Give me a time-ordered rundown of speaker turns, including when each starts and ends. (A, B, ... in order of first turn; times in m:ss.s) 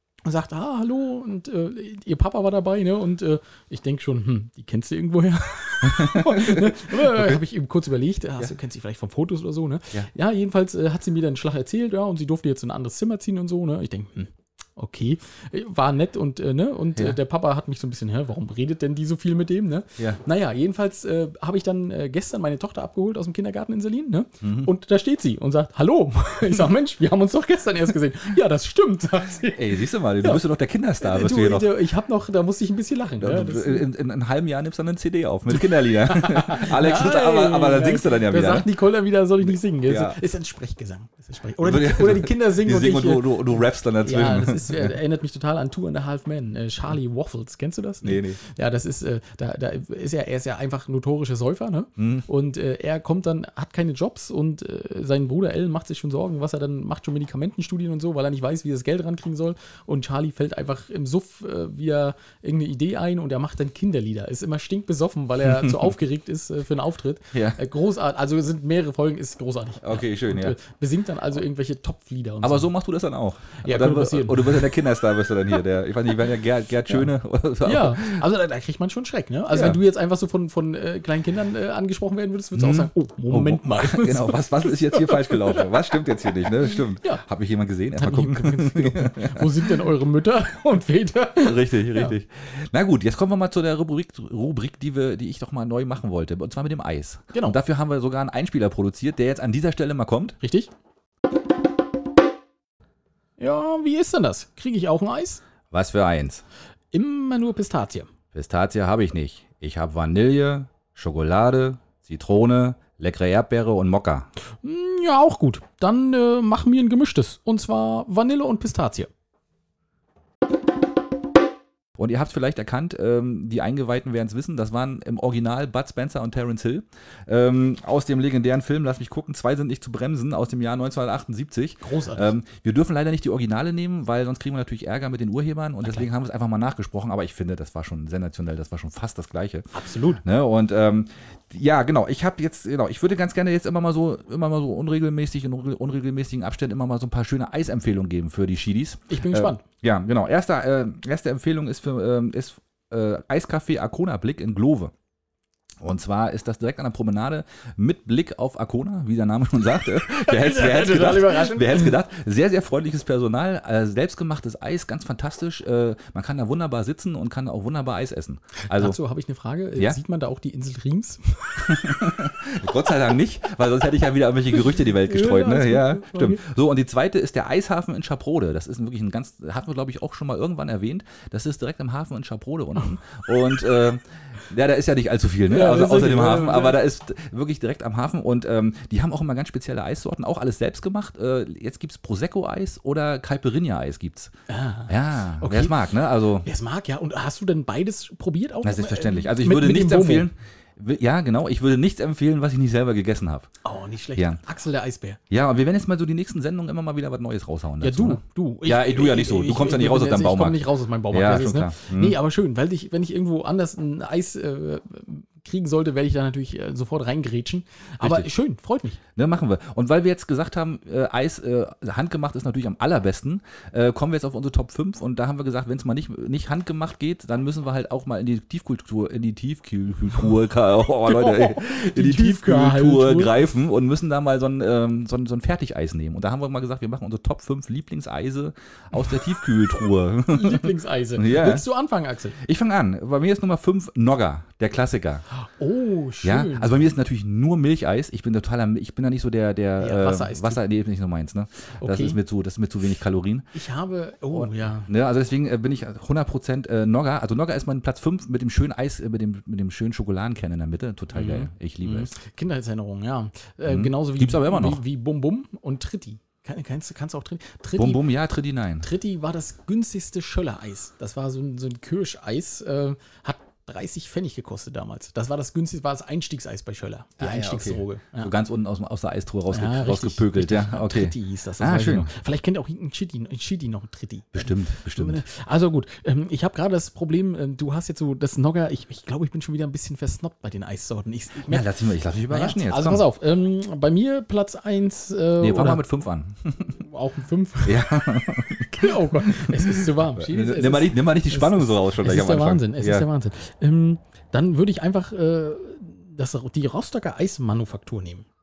0:00.2-0:30.4 A
0:05.8-0:07.4 B
0:24.4-0:24.7 B
0:29.6-0:31.7 B
0:31.0-0:33.9 A
0:33.2-0:38.7 B
0:35.6-1:12.7 A
0:39.9-0:40.2 B
0:41.6-0:44.9 B
0:48.0-0:48.4 B
0:52.0-0:52.3 B
1:05.4-1:05.9 B
1:07.3-1:07.6 B
1:09.8-1:10.6 B
1:12.4-1:18.2 B
1:13.6-1:14.7 A
1:17.6-1:25.7 A
1:19.5-1:19.8 B
1:22.6-1:29.5 B
1:28.0-1:32.2 A
1:31.4-1:40.4 B
1:40.4-1:40.7 A
1:43.4-1:45.4 A
1:45.7-1:46.4 B
1:46.9-1:48.1 A
1:48.3-1:54.3 B
1:54.6-1:59.1 A
2:02.0-2:19.7 B
2:11.8-2:12.3 A
2:19.7-2:20.2 A
2:20.2-2:34.9 B
2:29.1-2:29.6 A
2:35.8-2:49.0 B
2:40.1-2:42.0 A
2:48.7-2:52.2 A
2:51.7-3:14.3 B
2:54.6-2:56.4 A
3:05.5-3:06.8 A
3:14.5-3:15.8 A
3:14.9-3:16.5 B
3:16.4-3:20.3 A
3:18.6-3:23.5 B
3:23.6-3:25.2 A
3:25.3-3:32.2 B
3:27.8-3:39.0 A
3:38.0-3:38.3 B
3:39.2-4:01.6 B
3:51.0-3:53.4 A
4:00.3-4:02.4 A
4:02.4-4:05.2 B
4:05.6-4:06.9 A
4:06.2-4:13.5 B
4:09.8-4:10.6 A
4:11.8-4:12.2 A
4:13.5-4:14.9 A
4:14.3-4:22.1 B
4:21.1-4:28.0 A
4:23.7-4:24.8 B
4:27.8-4:28.9 B
4:28.8-4:38.3 A
4:37.2-4:42.1 B
4:39.5-4:51.7 A
4:44.3-4:45.2 B
4:51.5-4:53.0 B
4:52.3-4:55.8 A
4:55.4-4:56.8 B
4:56.7-4:58.0 A
4:57.6-5:03.1 B
4:58.6-5:08.3 A